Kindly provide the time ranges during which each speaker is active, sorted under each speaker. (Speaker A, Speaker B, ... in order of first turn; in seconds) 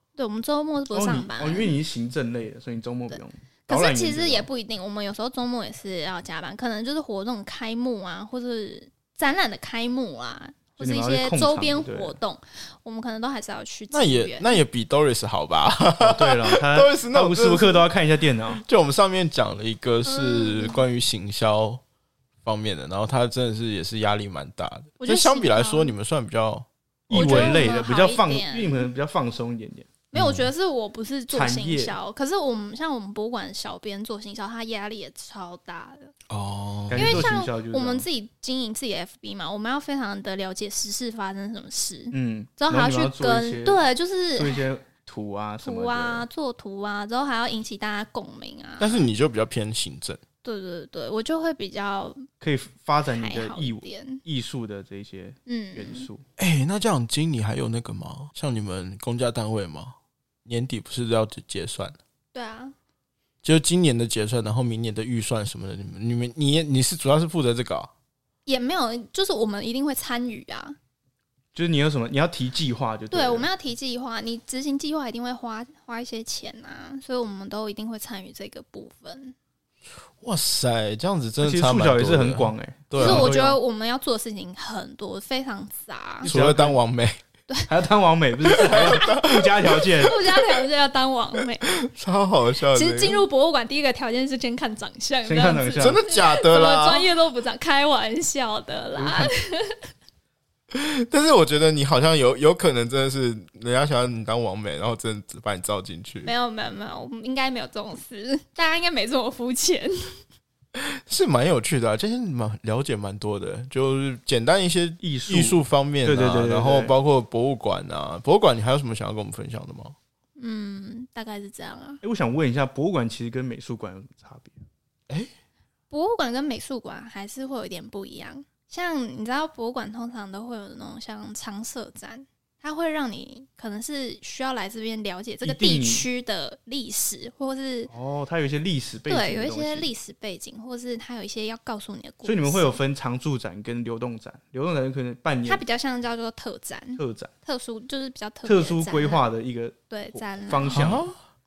Speaker A: 0.2-1.8, 3.1-14.6, 20.1-20.8, 25.0-25.9, 27.1-28.9, 30.1-36.1, 37.0-44.6, 45.6-49.1, 50.4-52.2, 53.1-54.2, 55.5-56.1, 62.3-62.7, 68.5-70.8, 73.1-79.4, 83.0-86.3, 89.0-91.7, 92.7-99.8, 106.2-110.2, 120.4-122.0, 125.9-137.9, 139.1-142.8, 145.5-149.2, 149.9-151.0
Speaker B: 0.9-4.5, 10.8-12.2, 16.0-18.6, 27.1-29.9, 31.3-31.9, 36.9-38.1, 42.1-43.9, 44.4-46.3, 52.4-56.2, 71.5-73.5, 81.4-83.6, 86.2-86.8, 87.7-90.2, 95.2-96.0, 99.0-99.3, 115.0-117.0, 122.0-124.6, 135.4-136.1, 137.9-139.9, 142.2-145.6, 147.0-147.3, 148.4-151.1
Speaker C: 13.9-17.9, 18.6-21.8, 22.4-27.7, 30.1-30.5, 36.3-37.3, 48.8-50.2, 56.4-62.0, 63.4-67.9, 80.2-83.4, 86.3-87.2, 88.5-89.6, 91.7-93.2, 95.8-97.1, 100.7-106.3, 110.8-120.0, 150.7-151.2